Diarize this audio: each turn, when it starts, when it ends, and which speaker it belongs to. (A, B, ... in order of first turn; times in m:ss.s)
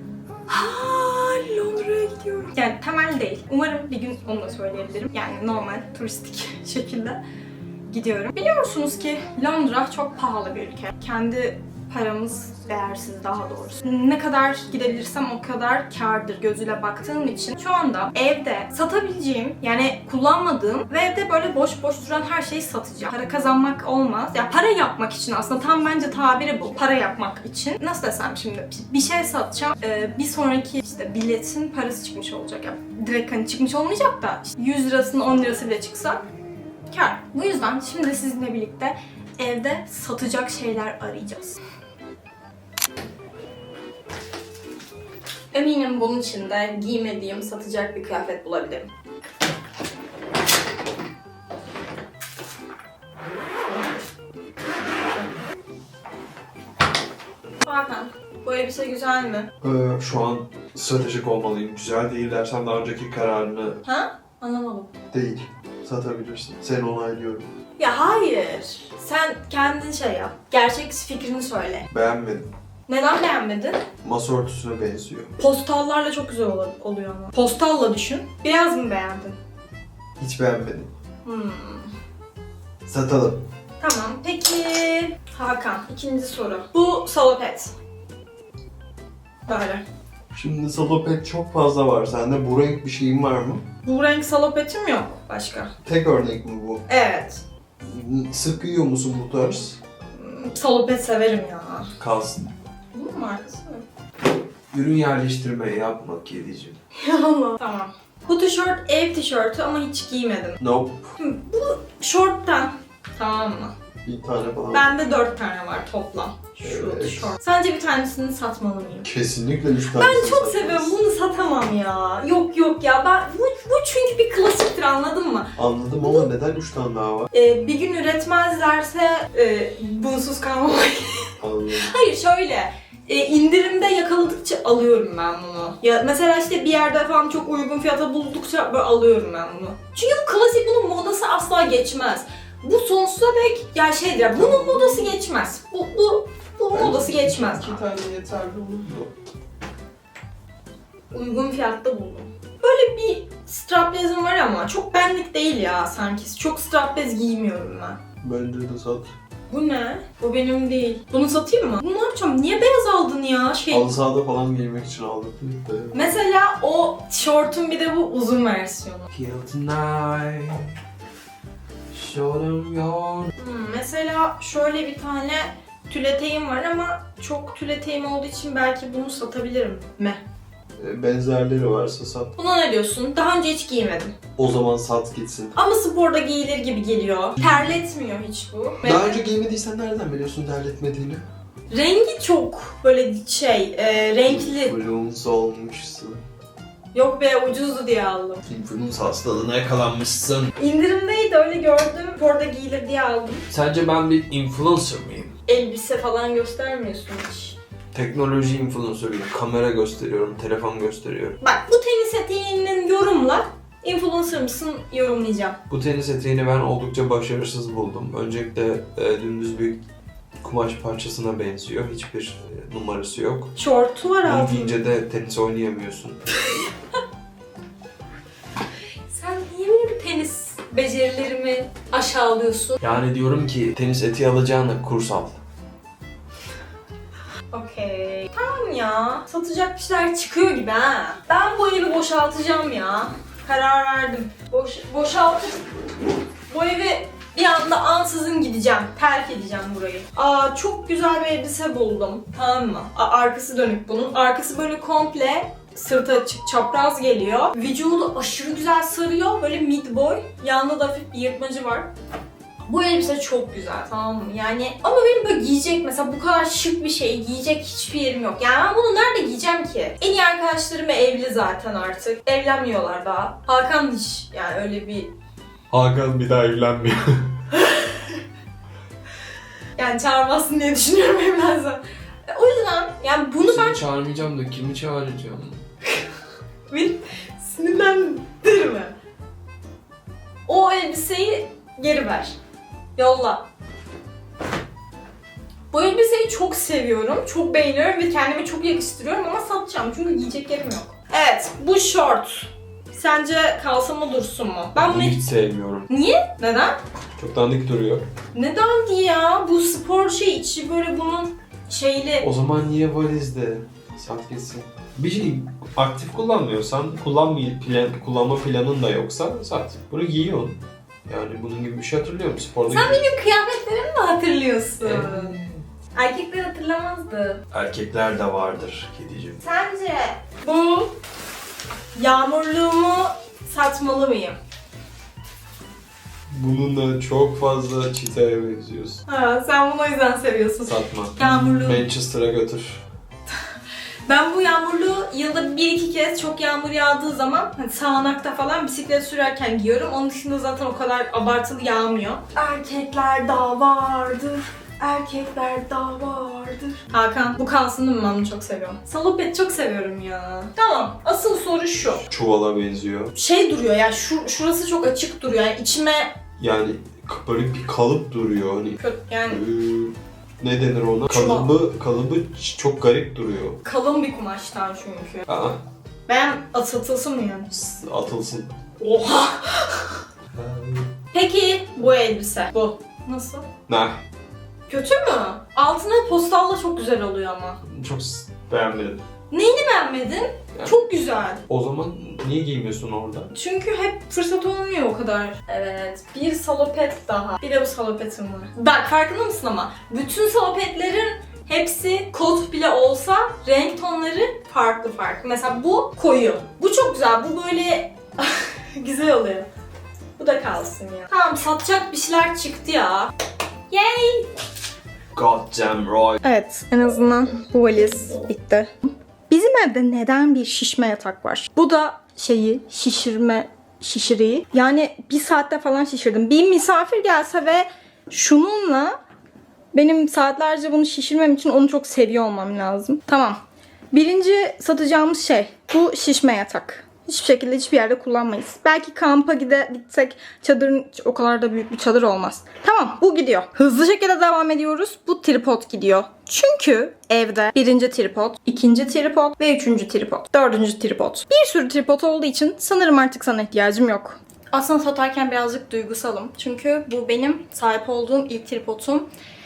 0:00.5-0:07.2 A
0:07.9-0:36.2 A
0:36.9-0:41.6 A
0:45.5-0:48.9 A
0:57.6-0:59.5 A
0:59.6-1:03.8 B
1:03.8-1:04.9 A
1:05.1-1:07.5 B
1:07.8-1:11.9 A
1:11.9-1:12.5 B
1:12.9-1:13.8 A
1:14.0-1:15.3 B
1:15.4-1:19.4 A
1:20.2-1:20.9 B
1:21.2-1:21.9 A
1:22.9-1:23.4 B
1:23.8-1:27.8 A
1:29.5-1:29.8 A
1:30.3-1:33.7 B
1:33.8-1:35.7 A
1:35.8-1:36.8 B
1:36.9-1:37.4 A
1:37.8-1:39.8 B
1:40.2-1:41.9 A
1:42.0-1:42.5 B
1:42.9-1:43.9 A
1:44.7-1:46.8 B
1:47.0-1:50.6 A
1:50.6-1:51.1 B
1:51.2-1:53.8 A
1:54.0-1:54.9 B
1:54.7-1:59.1 A
1:56.6-1:57.4 B
1:59.0-2:01.0 B
1:59.9-2:06.3 A
2:05.6-2:07.3 B
2:07.3-2:27.8 A
2:11.4-2:11.9 B
2:24.3-2:25.1 B
2:26.7-2:29.1 B
2:31.1-2:38.0 A
2:38.2-2:39.1 B
2:39.5-2:43.9 A
2:43.7-2:46.1 B
2:45.9-2:49.1 A
2:49.1-2:50.7 B
2:51.9-2:53.3 B
2:53.4-3:00.2 A
3:00.8-3:02.3 B
3:02.4-3:04.2 A
3:04.4-3:05.6 B
3:05.6-3:09.2 A
3:08.8-3:11.2 B
3:11.7-3:14.8 A
3:14.2-3:16.2 B
3:16.9-3:18.4 A
3:18.4-3:20.5 B
3:20.6-3:23.5 A
3:23.5-3:25.4 B
3:25.5-3:27.6 A
3:27.9-3:31.4 B
3:31.4-3:35.6 A
3:35.7-3:39.8 B
3:40.4-3:43.5 B
3:43.6-3:44.8 A
3:44.2-3:46.2 B
3:49.1-3:52.8 A
3:52.8-3:55.4 B
3:57.5-4:05.7 A
4:06.5-4:21.9 A
4:22.6-4:35.1 A
4:35.7-4:37.3 B
4:37.6-4:38.0 A
4:39.8-4:43.8 A
4:43.4-4:45.6 B
4:46.7-4:48.9 A
4:50.5-4:52.4 A
4:53.0-4:53.5 A
4:55.7-5:05.2 A
5:04.7-5:05.9 B
5:05.9-5:06.8 A
5:07.2-5:08.1 B
5:08.3-5:12.3 A
5:12.2-5:23.0 B
5:22.7-5:25.4 A
5:24.8-5:25.6 B
5:26.0-5:27.4 A
5:27.5-5:29.4 B
5:29.4-5:31.0 A
5:32.0-5:34.4 A
5:36.3-5:39.0 B
5:39.1-5:41.8 A
5:40.6-5:42.8 B
5:44.1-6:02.0 A
6:02.0-6:03.1 B
6:03.2-6:06.2 A
6:06.4-6:13.6 B
6:08.8-6:09.4 A
6:11.1-6:11.5 A
6:13.6-6:15.3 A
6:15.3-6:15.6 B
6:16.1-6:17.5 A
6:17.5-6:18.6 B
6:18.8-6:20.0 A
6:20.3-6:21.0 B
6:21.1-6:23.5 A
6:23.7-6:24.0 B
6:24.7-6:27.6 A
6:27.6-6:29.0 B
6:29.3-6:31.4 A
6:31.5-6:33.3 B
6:33.3-6:49.5 A
6:50.2-6:53.1 A
6:53.7-6:54.3 A
6:55.1-6:56.2 B
6:56.2-6:58.7 A
6:59.3-7:09.0 A
7:09.7-7:13.4 A
7:13.9-7:39.1 A